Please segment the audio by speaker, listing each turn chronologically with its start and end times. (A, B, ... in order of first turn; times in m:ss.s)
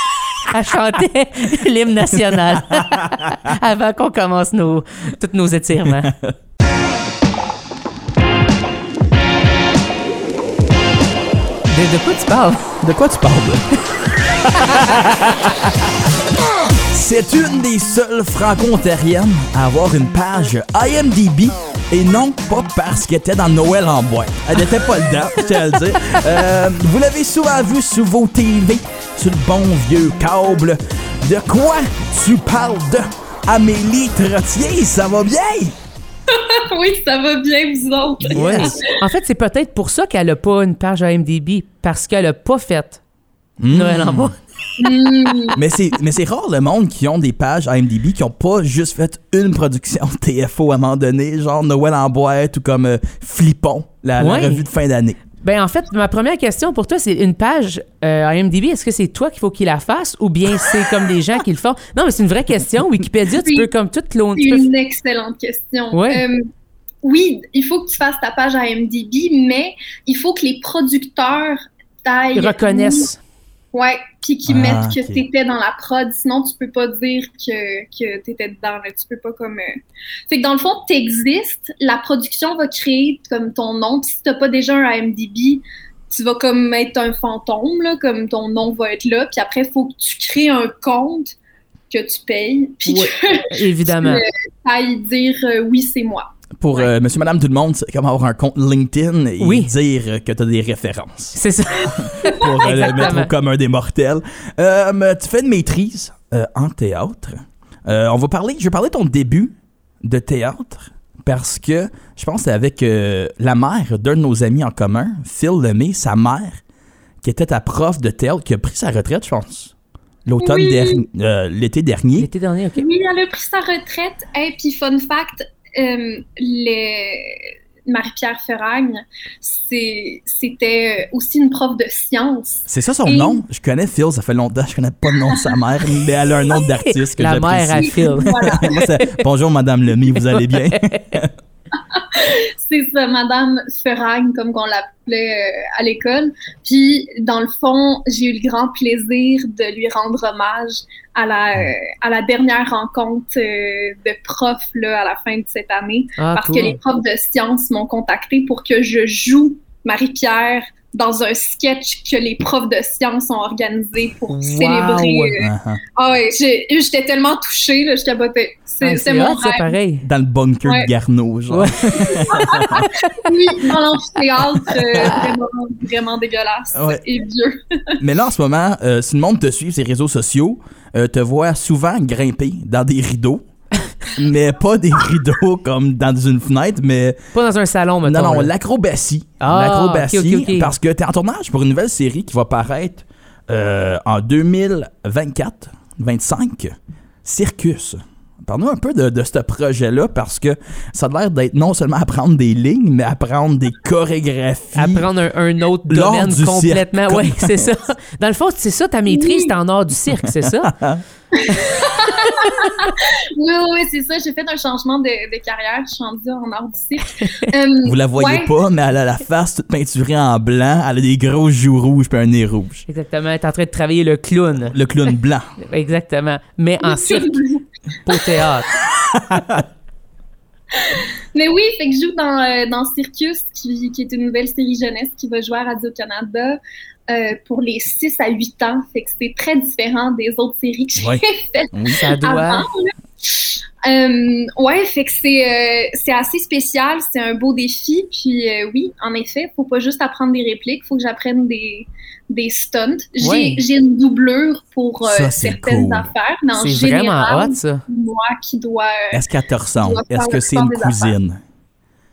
0:00.4-0:06.1 A
0:02.7-0:03.1 B
0:05.9-0:06.3 B
0:11.7-0:12.7 A
0:12.8-0:13.7 B
0:14.2-0:15.9 B
0:16.9-0:35.8 B
0:36.3-0:38.9 C
0:38.2-0:38.8 B
0:38.3-0:43.0 A
0:43.6-0:44.3 B
0:43.7-0:44.4 A
0:44.8-0:45.6 C
0:45.5-0:55.2 B
0:54.2-0:54.6 A
0:55.4-1:04.7 A
1:03.4-1:03.7 C
1:04.4-1:06.5 C
1:05.9-1:06.2 A
1:07.0-1:13.1 C
1:12.3-1:13.2 A
1:13.7-1:31.3 C
1:14.4-1:15.2 B
1:31.9-1:36.8 C
1:32.8-1:34.2 A
1:36.6-1:56.6 B
1:39.4-1:39.7 A
1:41.3-1:43.3 A
1:57.2-1:59.7 B
2:00.2-2:02.3 B
2:00.4-2:01.1 C
2:02.2-2:02.8 A
2:02.8-2:13.4 C
2:12.7-2:21.3 B
2:15.2-2:15.6 C
2:16.8-2:19.1 A
2:17.8-2:18.8 C
2:20.2-2:21.2 A
2:21.8-2:49.8 C
2:36.2-2:36.8 A
2:44.3-2:45.4 A
2:45.4-2:45.8 B
2:48.8-2:50.0 A
2:50.0-2:52.9 B
2:50.6-2:50.9 C
2:51.5-2:53.3 A
2:52.2-2:58.0 C
2:54.6-2:55.2 B
2:56.7-2:57.0 B
2:58.0-3:03.4 B
3:04.0-3:07.2 B
3:07.3-3:08.5 A
3:08.0-3:25.1 B
3:09.4-3:10.7 A
3:24.8-3:30.7 A
3:25.9-3:27.7 B
3:29.1-3:29.5 C
3:30.2-3:31.0 B
3:31.3-3:38.5 C
3:31.5-3:32.7 A
3:37.2-3:37.5 A
3:37.8-3:42.8 B
3:42.9-3:44.8 A
3:44.7-3:45.5 B
3:45.6-3:47.4 A
3:46.8-3:48.2 C
3:48.0-3:48.7 A
3:48.9-3:49.6 B
3:50.7-4:19.2 C
4:01.0-4:02.0 B
4:01.9-4:02.6 A
4:13.2-4:13.6 A
4:15.0-4:16.1 B
4:16.5-4:17.8 A
4:19.1-4:21.4 B
4:19.8-4:21.1 C